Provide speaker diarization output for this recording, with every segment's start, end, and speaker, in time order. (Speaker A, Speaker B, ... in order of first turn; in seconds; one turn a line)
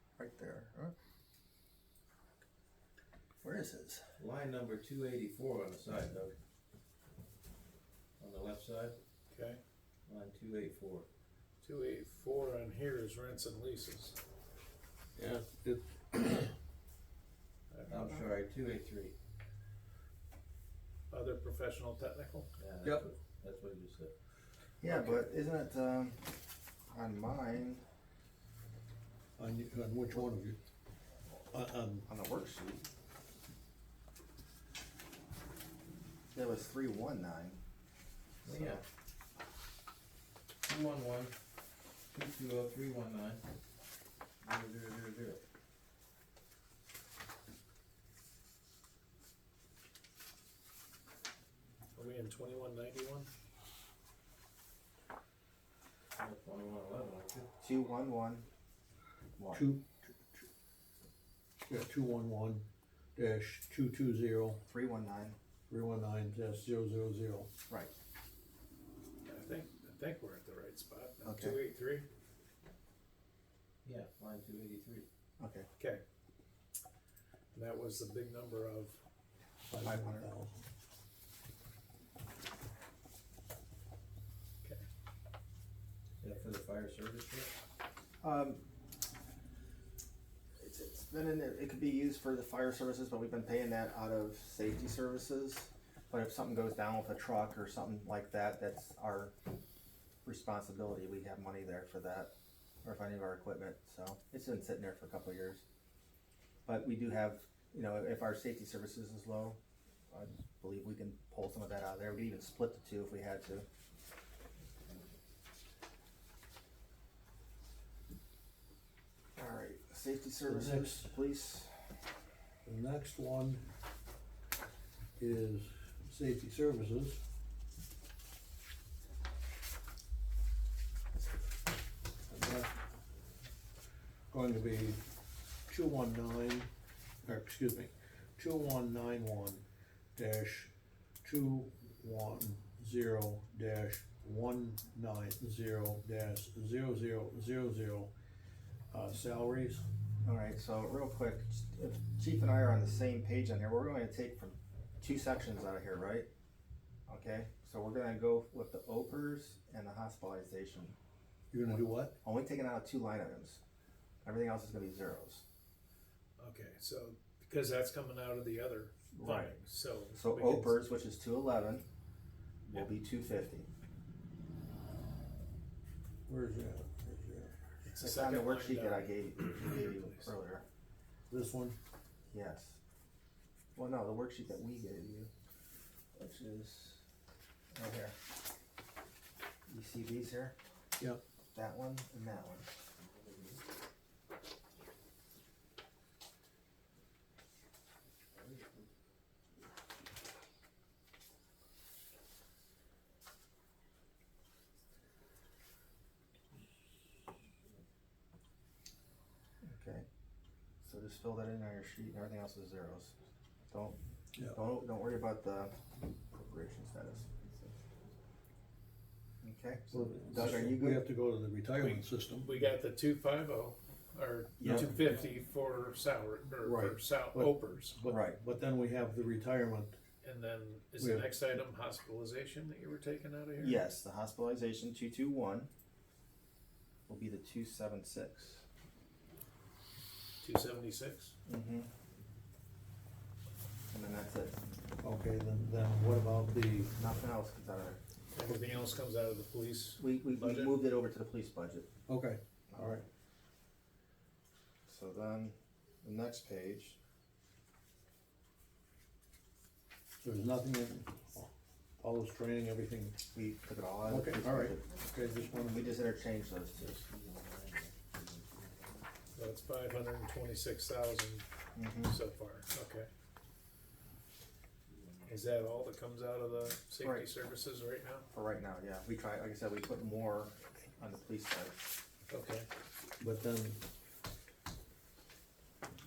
Speaker A: 0.2-0.9
Speaker A: 3.4-4.0
Speaker B: 4.2-6.4
Speaker B: 8.2-9.0
Speaker C: 9.3-9.6
Speaker B: 10.1-11.1
Speaker C: 11.6-14.2
Speaker D: 15.2-16.5
Speaker C: 17.7-18.2
Speaker B: 17.9-19.1
Speaker C: 21.1-22.5
Speaker B: 22.6-24.1
Speaker A: 24.8-26.3
Speaker C: 24.9-25.1
Speaker A: 26.9-27.8
Speaker D: 29.4-30.6
Speaker D: 31.5-32.1
Speaker A: 32.1-32.9
Speaker A: 36.3-37.6
Speaker B: 38.4-38.8
Speaker A: 38.5-38.8
Speaker B: 40.6-41.4
Speaker B: 42.1-43.4
Speaker B: 44.4-45.4
Speaker C: 51.9-53.3
Speaker B: 56.2-57.5
Speaker A: 57.6-58.5
Speaker A: 59.4-59.7
Speaker D: 59.5-60.4
Speaker D: 61.7-64.6
Speaker A: 64.7-65.3
Speaker D: 65.7-67.5
Speaker C: 69.2-72.0
Speaker A: 71.2-71.6
Speaker B: 73.8-75.0
Speaker A: 75.4-75.7
Speaker C: 77.5-79.0
Speaker D: 79.7-80.6
Speaker A: 79.8-80.3
Speaker B: 86.2-87.5
Speaker A: 88.2-88.6
Speaker A: 90.6-99.3
Speaker A: 100.2-102.3
Speaker A: 102.8-105.6
Speaker A: 106.7-109.6
Speaker A: 110.1-113.7
Speaker A: 119.3-121.7
Speaker D: 120.5-121.1
Speaker D: 122.6-123.6
Speaker D: 125.2-127.2
Speaker D: 132.3-132.7
Speaker D: 134.3-135.0
Speaker D: 135.7-136.7
Speaker D: 137.2-139.6
Speaker D: 140.2-140.7
Speaker D: 141.2-148.1
Speaker D: 148.9-149.8
Speaker A: 150.2-156.3
Speaker A: 157.1-160.9
Speaker D: 161.5-162.1
Speaker A: 161.7-163.6
Speaker A: 164.2-165.4
Speaker C: 166.4-170.8
Speaker A: 169.1-169.6
Speaker A: 170.2-171.8
Speaker A: 172.7-173.7
Speaker D: 176.3-177.6
Speaker C: 177.8-180.2
Speaker A: 178.0-180.7
Speaker D: 181.3-181.8
Speaker A: 182.3-182.8
Speaker A: 183.8-185.3
Speaker A: 186.1-187.0
Speaker A: 187.8-188.2
Speaker A: 189.7-190.6
Speaker A: 191.5-192.7
Speaker B: 193.1-193.6
Speaker A: 209.6-210.1
Speaker A: 210.8-213.2
Speaker A: 213.7-214.0
Speaker A: 214.5-217.7
Speaker A: 219.4-221.1
Speaker D: 219.9-222.6
Speaker C: 221.7-228.0
Speaker A: 224.6-225.0
Speaker D: 224.6-225.1
Speaker D: 226.6-229.9
Speaker A: 228.0-228.4
Speaker C: 230.2-233.8
Speaker D: 231.0-231.3
Speaker A: 233.6-235.7
Speaker A: 237.1-238.7
Speaker C: 240.4-241.3
Speaker A: 241.4-241.9
Speaker A: 243.9-244.6
Speaker D: 245.0-246.9
Speaker A: 247.0-248.0
Speaker C: 248.3-250.8
Speaker A: 250.0-251.9
Speaker D: 252.1-253.0
Speaker A: 252.7-253.0
Speaker A: 254.9-257.0
Speaker D: 260.2-263.2
Speaker A: 263.3-264.9
Speaker D: 264.1-265.9
Speaker A: 265.5-267.0
Speaker B: 266.8-269.1
Speaker C: 269.4-271.5
Speaker A: 271.8-272.2
Speaker C: 272.1-273.1
Speaker B: 274.9-275.4
Speaker C: 275.3-278.3
Speaker A: 277.0-277.3
Speaker A: 278.3-281.8
Speaker C: 282.3-282.7
Speaker D: 283.2-283.8